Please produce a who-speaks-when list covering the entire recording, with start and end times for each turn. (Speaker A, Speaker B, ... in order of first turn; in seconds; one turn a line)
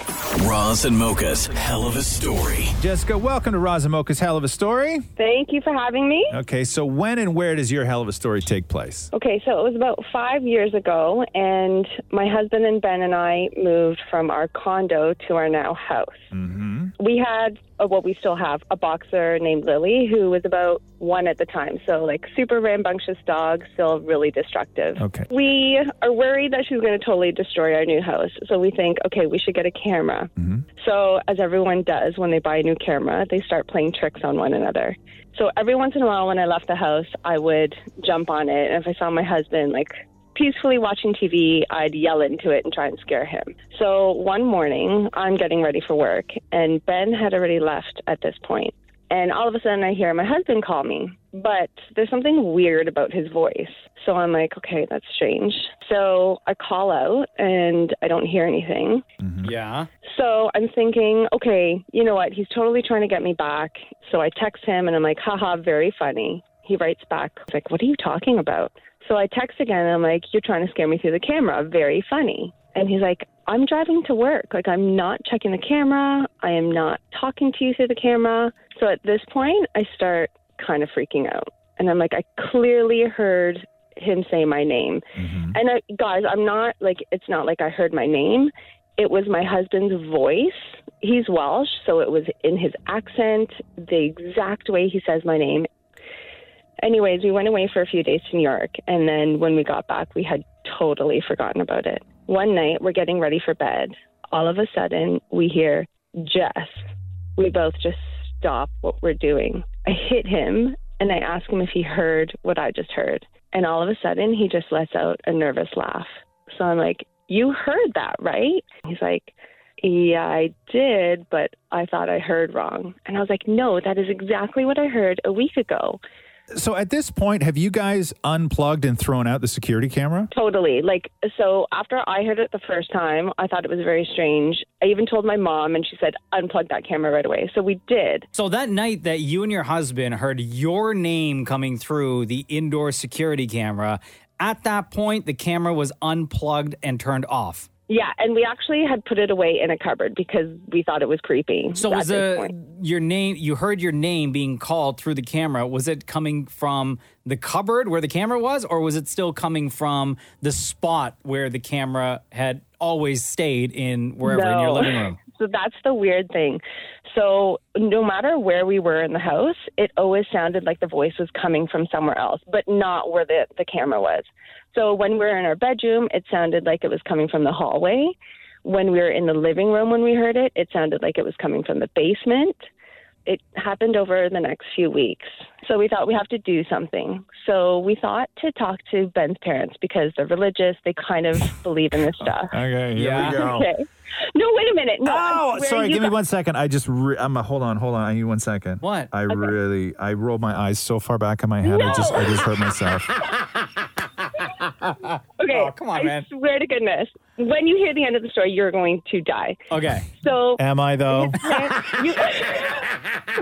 Speaker A: 0.4-2.7
Speaker B: 2.8-5.0
Speaker C: 5.2-6.3
Speaker B: 6.3-9.1
Speaker C: 9.1-16.2
Speaker B: 16.3-16.9
Speaker C: 17.0-59.0
Speaker B: 25.0-25.3
Speaker B: 30.4-30.6
Speaker B: 59.2-59.5
Speaker D: 59.4-59.9
Speaker C: 60.1-95.7
Speaker B: 85.2-85.6
Speaker C: 96.8-106.8
Speaker C: 107.4-126.0
Speaker B: 126.5-130.3
Speaker C: 130.3-138.3
Speaker D: 138.3-147.7
Speaker C: 147.9-152.5
Speaker D: 151.8-165.2
Speaker C: 164.2-182.7
Speaker C: 183.3-192.5
Speaker B: 192.2-193.7
Speaker D: 192.9-193.5
Speaker C: 193.1-196.2
Speaker B: 195.0-203.1
Speaker D: 198.8-199.5
Speaker C: 201.6-202.4
Speaker D: 204.7-206.3
Speaker C: 205.4-209.6
Speaker D: 209.7-210.1
Speaker C: 210.1-212.9
Speaker B: 210.6-211.4